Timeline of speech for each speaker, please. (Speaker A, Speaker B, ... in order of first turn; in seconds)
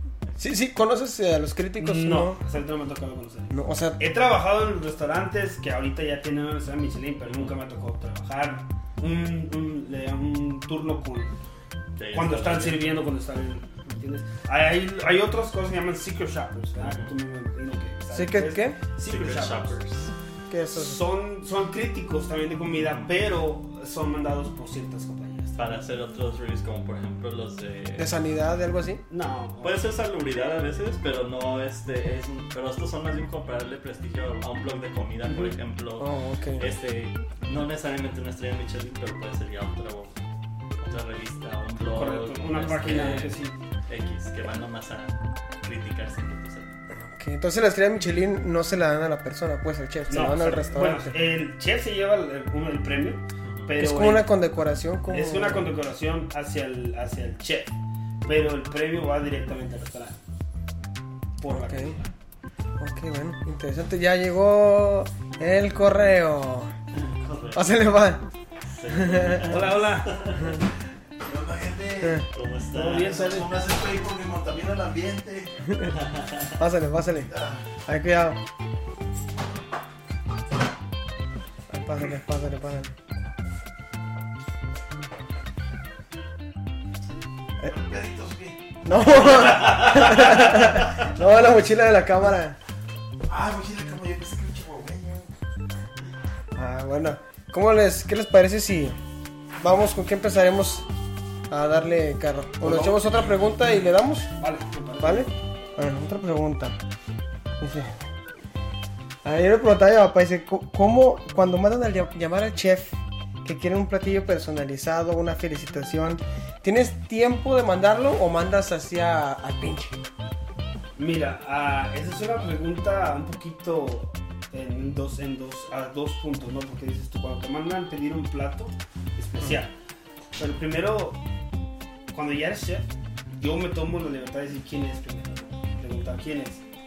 Speaker A: 0.4-2.4, 3.5-4.0, 18.1-18.8, 20.5-21.0, 28.0-29.0, 36.0-36.6, 47.0-51.1, 53.8-55.7, 61.5-62.0, 62.8-66.7, 67.5-68.3, 68.9-69.6, 70.4-70.6, 72.0-72.3, 75.7-75.9, 76.6-77.3, 77.9-78.4, 81.7-82.9, 88.8-92.6, 96.5-99.0, 99.6-100.9, 101.5-104.3, 105.0-106.8, 107.6-108.0, 109.2-120.0
Speaker B: 1.8-11.3, 12.1-19.8, 20.7-25.6, 29.1-29.8, 35.2-35.5, 41.8-43.6, 50.1-54.3, 55.1-57.7, 58.2-60.2, 61.4-62.1, 69.5-70.2, 72.7-73.5, 102.6-103.1, 104.3-105.3, 121.0-129.7, 130.4-131.2, 132.1-136.6
Speaker C: 12.0-12.8, 16.8-17.1, 19.1-20.1, 22.8-23.1, 25.6-28.1, 29.6-40.2, 40.8-46.7, 53.4-53.7, 66.9-67.7, 68.7-70.6, 72.3-73.4, 75.9-76.6
Speaker D: 71.2-72.2, 72.9-75.7, 77.3-77.7, 87.6-88.8, 93.3-95.3